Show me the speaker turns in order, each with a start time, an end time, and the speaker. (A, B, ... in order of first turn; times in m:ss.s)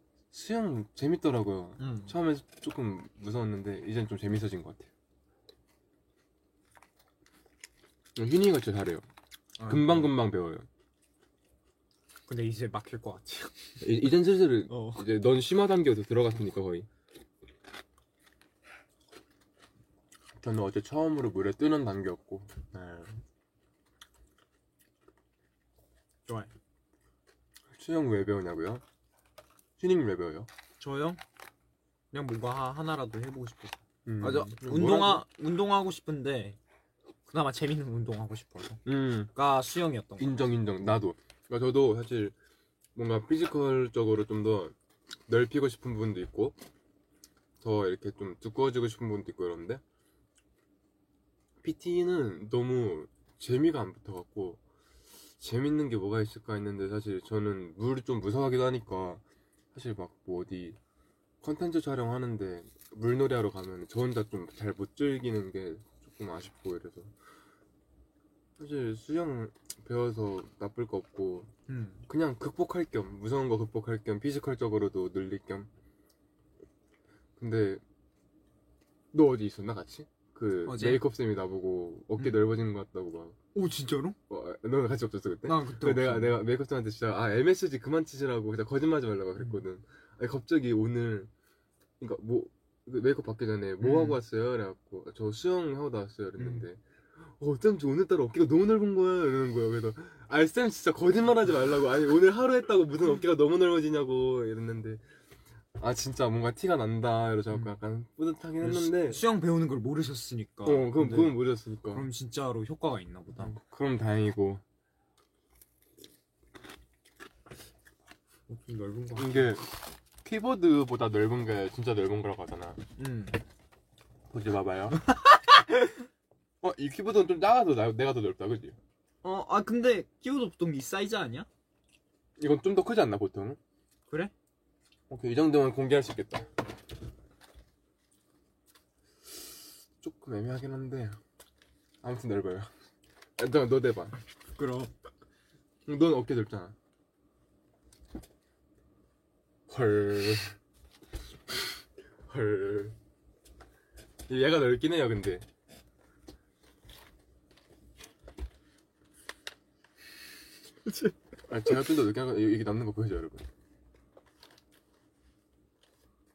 0:00.3-0:04.9 A
0:01.8-0:02.2 B
0:08.2-0:09.0 A
0:09.6-0:10.1 B
0:09.7-0:10.7 A
0:12.3-0:14.0 B
0:13.8-0:16.9 A
0:14.7-0:15.1 B
0:20.4-0:23.1 A
0:27.7-0:28.8 A
0:29.8-0:30.5 A
0:30.8-0:31.2 B
0:32.1-0:36.6 B
0:34.1-0:35.2 A
0:37.3-0:40.3 B
0:38.8-0:39.3 A
0:40.2-0:42.4 A
0:43.0-0:44.8 A
0:45.3-0:46.6 A
0:47.6-0:49.8 A
0:51.6-0:54.6 A
0:55.4-0:59.2 A
0:59.7-1:00.8 A
1:01.4-1:07.1 A
1:08.6-1:11.5 A
1:11.7-1:12.1 B
1:12.1-1:15.7 A
1:17.4-1:17.8 A
1:19.1-1:23.4 A
1:20.7-1:21.0 B
1:23.5-1:24.2 B
1:24.3-1:31.3 A
1:25.4-1:26.4 B
1:32.0-1:45.0 A
1:33.8-1:34.2 B
1:36.4-1:36.7 B
1:45.8-1:49.2 A
1:48.6-1:53.6 B
1:50.6-1:52.1 A
1:53.4-1:54.6 A
1:58.5-1:59.5 B
1:59.2-1:59.7 A
2:00.2-2:02.8 A
2:03.0-2:03.4 B
2:04.3-2:05.0 A
2:05.1-2:05.9 B
2:06.6-2:08.8 A
2:09.2-2:11.5 B
2:12.4-2:13.6 A
2:15.1-2:16.5 A
2:20.0-2:21.2 A
2:22.0-2:22.7 A
2:23.4-2:24.2 A
2:24.6-2:24.9 B
2:25.9-2:26.8 A
2:29.7-2:30.6 A
2:32.3-2:33.0 A
2:34.3-2:35.4 A
2:40.9-2:41.1 B
2:41.5-2:43.4 A